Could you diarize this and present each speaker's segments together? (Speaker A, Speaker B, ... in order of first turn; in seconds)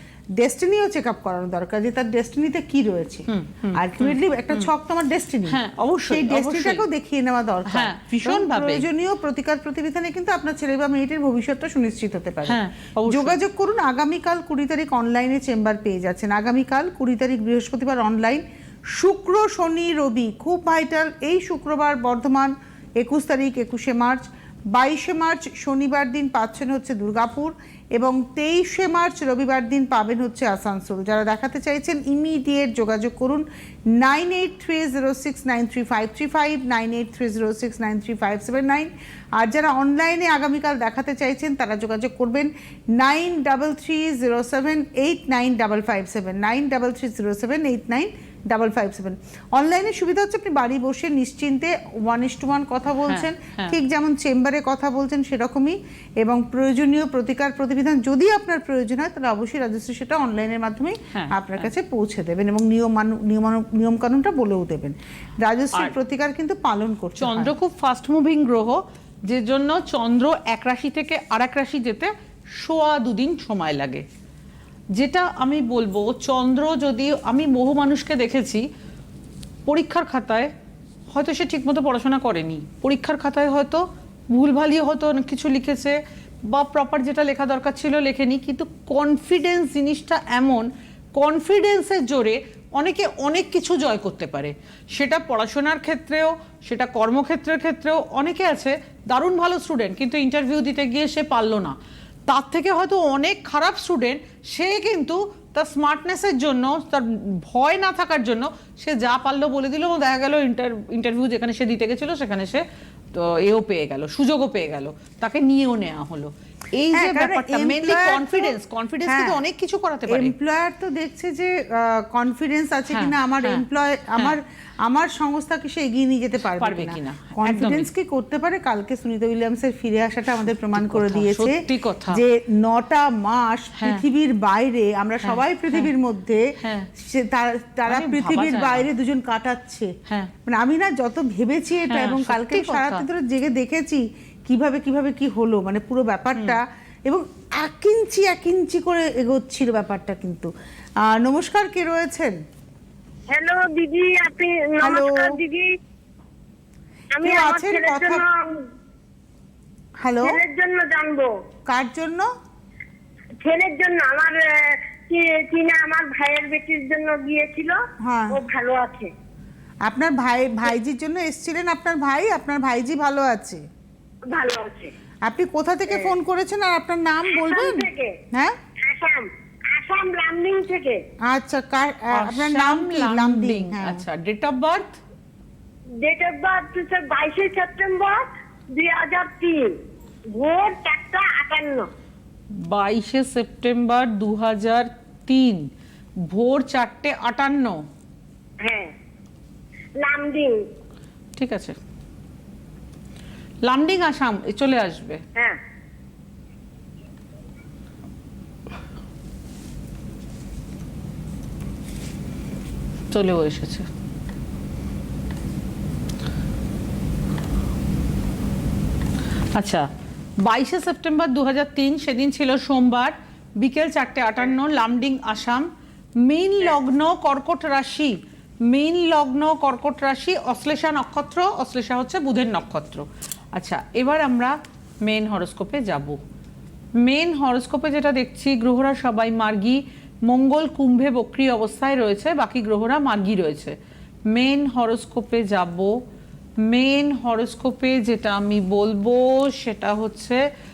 Speaker A: 0.4-67.5, 116.9-119.4, 120.1-136.4, 137.0-139.9, 140.5-150.5, 151.0-152.4, 154.8-155.3, 157.2-158.2, 160.0-160.4, 161.7-162.3, 168.0-168.4, 169.9-173.6, 175.2-178.6, 181.3-184.0
Speaker B: 3.3-4.7, 5.5-6.8, 7.7-8.9, 12.4-13.4, 53.1-53.8, 61.1-61.7, 67.2-74.0, 74.9-78.7, 79.7-80.5, 81.1-101.8, 102.3-120.3, 122.9-123.6, 126.6-127.9, 130.7-132.2, 133.8-134.0, 135.2-135.9, 136.6-136.9, 137.9-138.9, 141.9-143.1, 182.1-185.0, 192.5-195.7, 196.3-197.8, 201.4-201.8, 203.7-205.2, 213.1-213.9, 219.6-219.9, 220.4-225.7, 226.2-236.2, 237.0-243.8, 244.3-245.9, 246.6-250.4
Speaker C: 153.3-155.7, 157.2-158.3, 160.2-161.3, 163.4-167.8, 168.3-169.1, 174.3-174.9, 177.3-178.2, 178.8-181.0, 186.0-189.8, 190.3-191.9, 198.6-198.9, 200.0-200.7